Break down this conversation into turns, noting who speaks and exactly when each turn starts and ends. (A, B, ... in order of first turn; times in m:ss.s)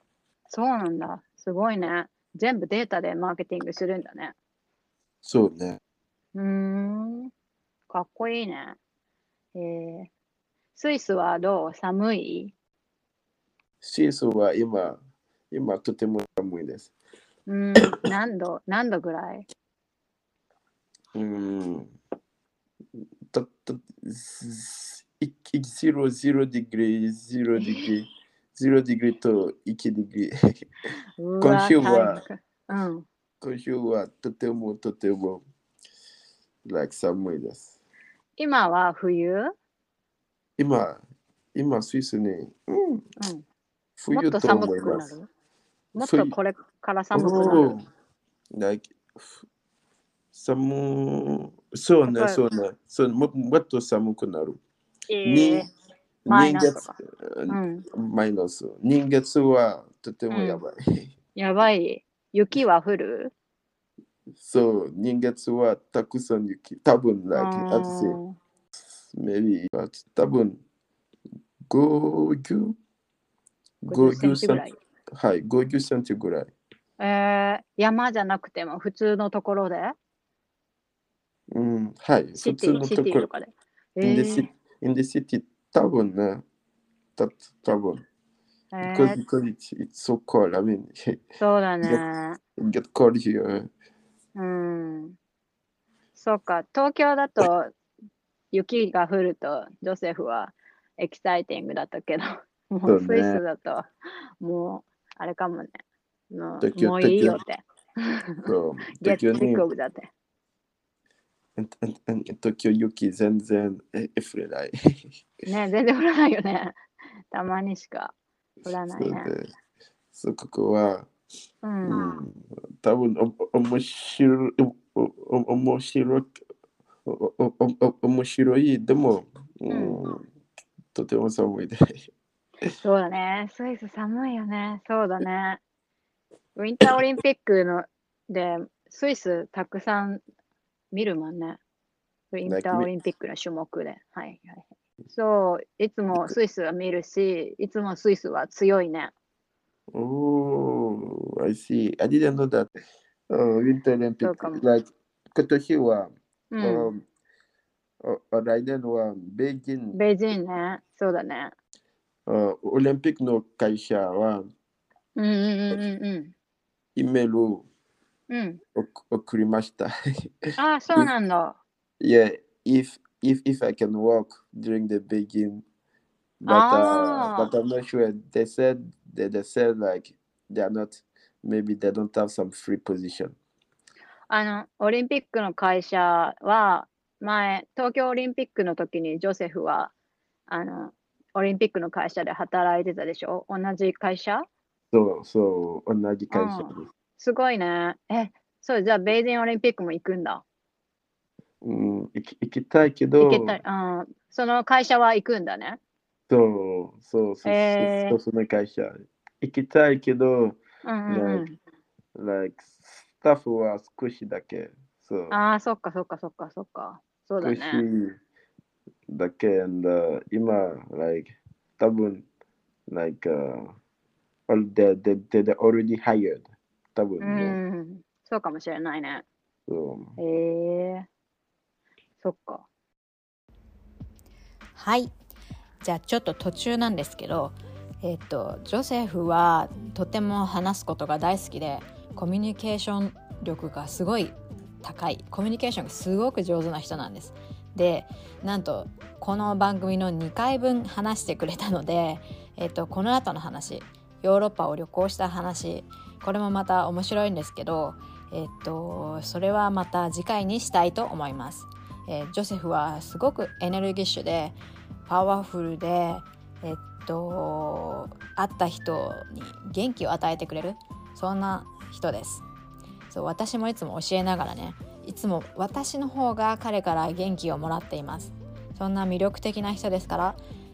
0:00.5-0:04.4 A
0:05.2-0:05.8 B
0:06.4-0:07.3 A
0:07.9-0:08.8 A
0:09.6-0:10.1 A
0:10.8-0:12.5 A
0:13.8-0:15.0 B
0:15.5-0:16.9 B
0:17.5-0:19.5 A
0:21.2-0:21.9 B
0:23.3-0:30.3 B
0:27.6-0:27.9 A
0:31.2-0:33.0 A
0:31.4-0:32.2 B
0:33.4-0:35.4 B
0:36.6-0:37.8 B
0:38.4-0:39.5 A
0:40.6-0:41.0 B
0:41.6-0:43.0 B
0:43.2-0:43.4 A
0:44.0-0:45.1 B
0:44.1-0:45.3 A
0:46.0-0:47.8 A
0:46.0-0:46.3 B
0:47.1-0:47.9 B
0:48.5-0:49.4 B
0:50.3-0:54.6 B
0:52.1-0:52.4 A
0:55.1-0:55.7 A
0:55.2-0:55.7 B
0:56.2-1:01.1 B
0:56.3-0:56.9 A
0:57.5-0:57.8 A
1:00.3-1:00.6 A
1:01.4-1:03.3 A
1:04.4-1:08.2 B
1:07.3-1:08.4 A
1:09.1-1:10.6 B
1:11.7-1:12.8 B
1:13.8-1:14.7 B
1:13.9-1:14.8 A
1:15.2-1:16.5 B
1:17.0-1:20.0 A
1:21.5-1:23.3 B
1:22.4-1:24.5 A
1:24.0-1:26.4 B
1:27.2-1:28.0 B
1:28.7-1:29.2 A
1:28.8-1:31.2 B
1:31.4-1:32.4 A
1:32.6-1:33.7 B
1:34.4-1:35.2 A
1:36.2-1:37.7 A
1:38.5-1:43.8 A
1:42.9-1:43.4 B
1:44.4-1:45.8 A
1:46.3-1:48.5 A
1:46.6-1:47.4 B
1:48.4-1:49.6 B
1:49.0-1:50.1 A
1:51.6-1:54.8 B
1:55.5-1:56.8 A
1:57.3-1:59.3 A
1:58.9-1:59.5 B
2:00.1-2:01.1 B
2:01.6-2:02.2 A
2:01.8-2:06.3 B
2:07.1-2:10.3 B
2:09.7-2:10.0 A
2:10.9-2:11.8 B
2:12.8-2:15.6 A
2:16.6-2:20.2 A
2:20.9-2:21.6 A
2:22.3-2:29.1 A
2:22.5-2:22.9 B
2:29.9-2:32.7 B
2:33.3-2:37.0 B
2:34.2-2:34.6 A
2:36.5-2:36.9 A
2:38.0-2:40.0 B
2:39.9-2:41.5 A
2:42.3-2:44.5 B
2:45.2-2:46.3 A
2:47.0-2:47.7 B
2:48.3-2:48.6 A
2:48.8-2:49.9 B
2:50.5-2:51.1 B
2:50.6-2:51.6 A
2:52.0-2:55.6 B
2:56.4-3:03.4 B
2:56.5-2:57.5 A
3:04.3-3:09.9 A
3:10.5-3:14.5 A
3:14.9-3:16.9 B
3:16.3-3:20.4 A
3:21.6-3:23.6 B
3:23.2-3:25.8 A
3:26.3-3:31.4 B
3:27.4-3:28.2 A
3:30.8-3:31.6 A
3:32.2-3:35.4 B
3:35.3-3:37.8 A
3:37.4-3:38.2 B
3:39.1-3:42.2 B
3:42.9-3:43.8 B
3:44.5-3:47.6 B
3:47.2-3:49.3 A
3:49.7-3:50.2 B
3:50.2-3:51.1 A
3:52.2-3:52.7 A
3:54.8-3:55.1 C
3:55.8-4:32.4 C
4:33.1-4:40.4 C